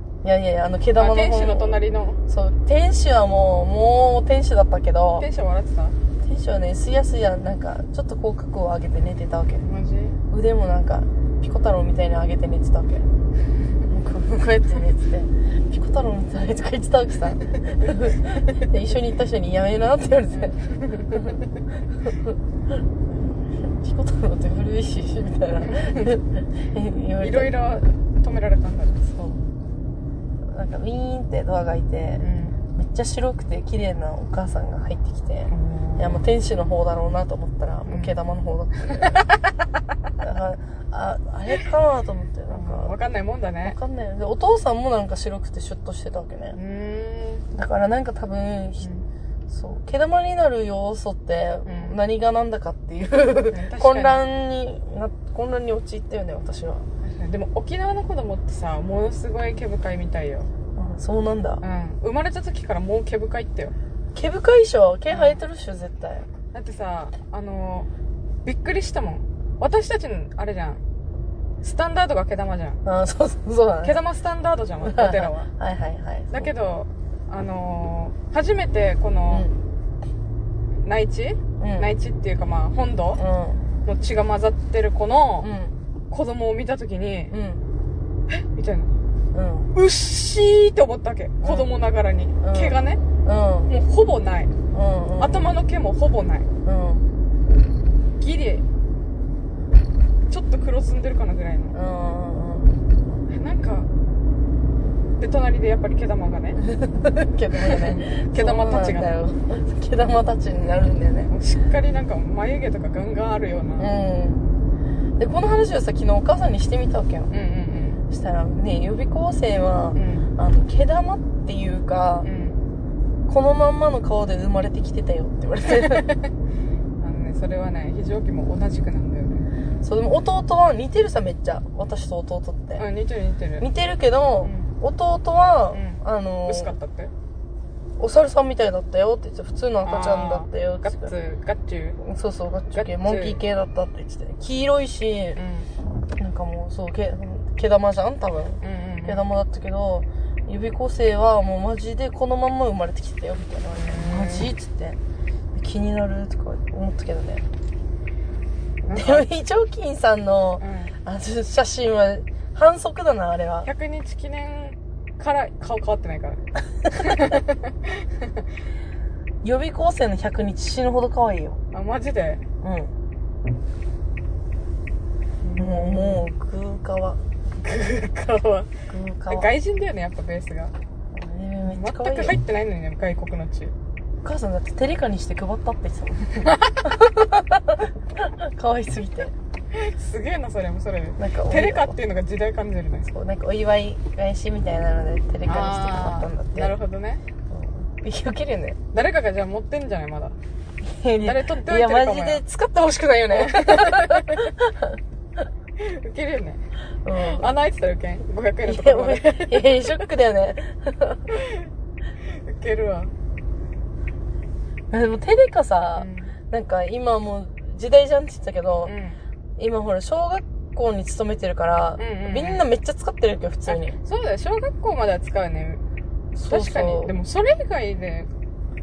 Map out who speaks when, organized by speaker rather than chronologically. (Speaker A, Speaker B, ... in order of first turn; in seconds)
Speaker A: 0.2-5.3, 6.2-9.6, 10.3-13.1, 13.9-20.6, 21.1-21.4, 22.0-27.8, 29.0-29.4, 30.5-32.2, 32.7-39.3, 40.2-42.9, 43.6-46.6, 47.5-48.9, 49.5-56.8, 60.8-61.6, 64.1-66.2, 72.8-74.0, 74.8-76.5, 79.3-79.6, 81.6-81.9, 83.1-83.7, 85.4-85.7, 87.3-87.6, 89.3-89.7, 91.4-91.7, 92.4-93.7, 94.7-95.5, 96.6-97.0, 101.7-102.8, 106.6-111.3, 113.8-114.5, 115.2-117.3, 118.1-122.3, 123.3-126.1, 129.8-132.8, 133.6-136.7, 138.0-141.1, 142.0-145.4, 146.2-155.0, 155.5-157.4, 158.9-163.7, 167.0-167.3, 169.4-171.6, 172.6-172.9, 175.6-177.2, 178.9-179.5, 181.1-182.4, 184.2-189.3, 191.2-192.0, 193.1-196.8, 197.5-198.8, 200.8-205.0, 207.0-207.5, 208.7-211.3, 214.9-218.9, 219.6-224.0, 226.3-227.1
Speaker B: 1.0-2.2, 5.2-6.0, 9.6-10.1, 13.9-14.2, 20.3-21.4, 25.6-26.2, 27.2-29.1, 32.2-32.6, 35.5-36.3, 37.9-38.1, 38.9-39.6, 42.5-43.8, 46.5-47.5, 51.6-52.0, 53.5-54.2, 57.0-60.5, 61.6-63.7, 65.1-65.4, 66.5-67.9, 68.4-70.8, 71.6-72.8, 73.8-75.5, 76.3-79.5, 80.8-83.2, 83.8-85.5, 86.1-87.3, 88.3-88.9, 89.7-93.0, 93.7-94.5, 95.2-96.5, 98.2-98.6, 100.3-101.8, 103.3-103.9, 105.2-106.6, 107.6-109.1, 111.3-113.9, 117.3-118.0, 119.9-120.3, 122.2-122.6, 125.7-126.3, 127.0-129.5, 132.8-133.7, 134.4-134.7, 135.7-137.1, 139.8-142.0, 142.7-143.4, 145.3-145.7, 148.6-149.2, 153.8-154.5, 158.8-159.2, 160.6-160.9, 163.6-168.4, 171.7-172.4, 175.4-176.2, 177.6-178.7, 179.3-180.7, 181.7-183.7, 186.4-186.8, 189.7-193.1, 195.4-197.2, 198.9-200.4, 201.2-202.4, 203.3-204.5, 205.8-210.0, 211.3-211.7, 212.2-213.1, 215.9-216.3, 218.8-219.2, 222.0-222.7, 223.7-225.8, 226.5-228.3